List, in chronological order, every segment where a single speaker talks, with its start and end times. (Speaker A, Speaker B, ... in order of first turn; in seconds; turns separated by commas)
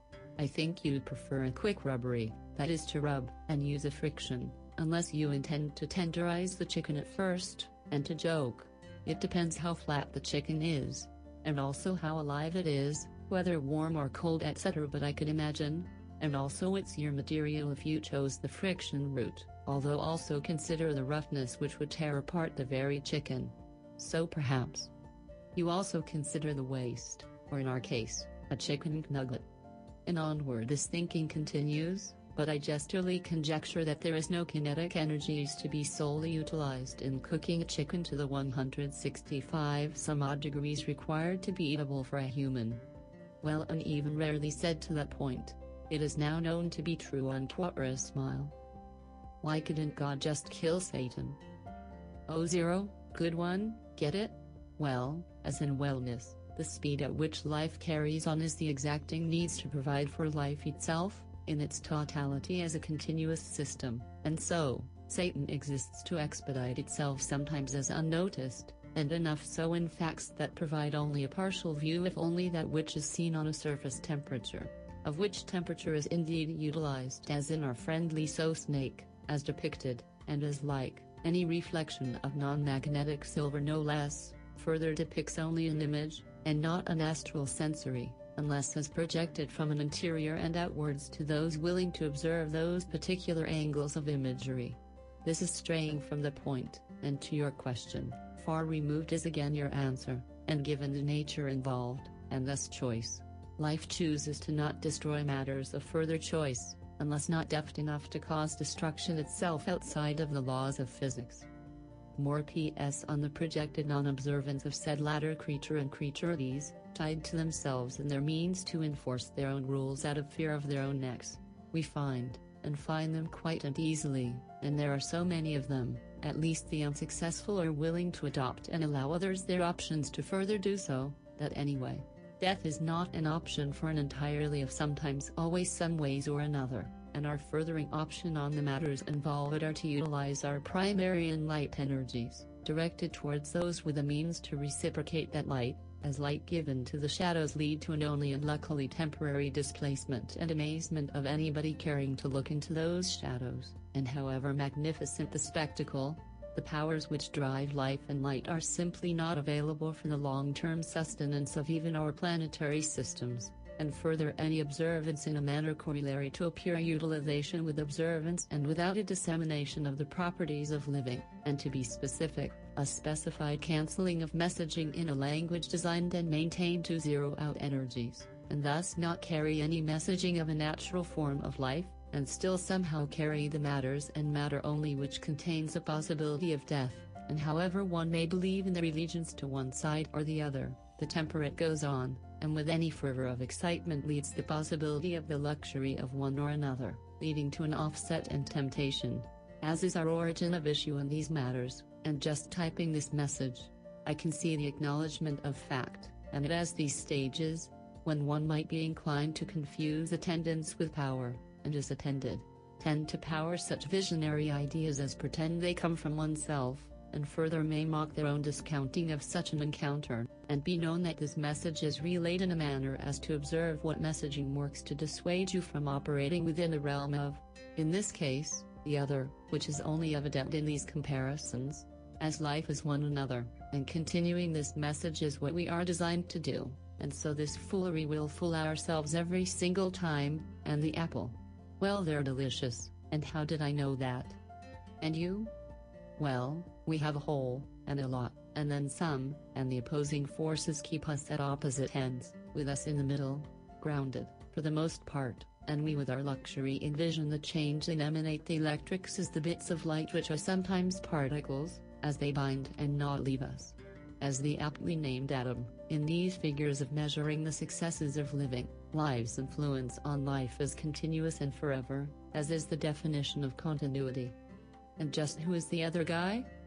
Speaker A: 0.4-24.9, Speaker A: 25.5-29.4, Speaker A: 30.1-42.8, Speaker A: 43.4-48.5, Speaker A: 49.4-51.4, Speaker A: 52.3-111.5, Speaker A: 112.2-244.4, Speaker A: 245.0-245.5, Speaker A: 246.2-274.4, Speaker A: 275.0-276.5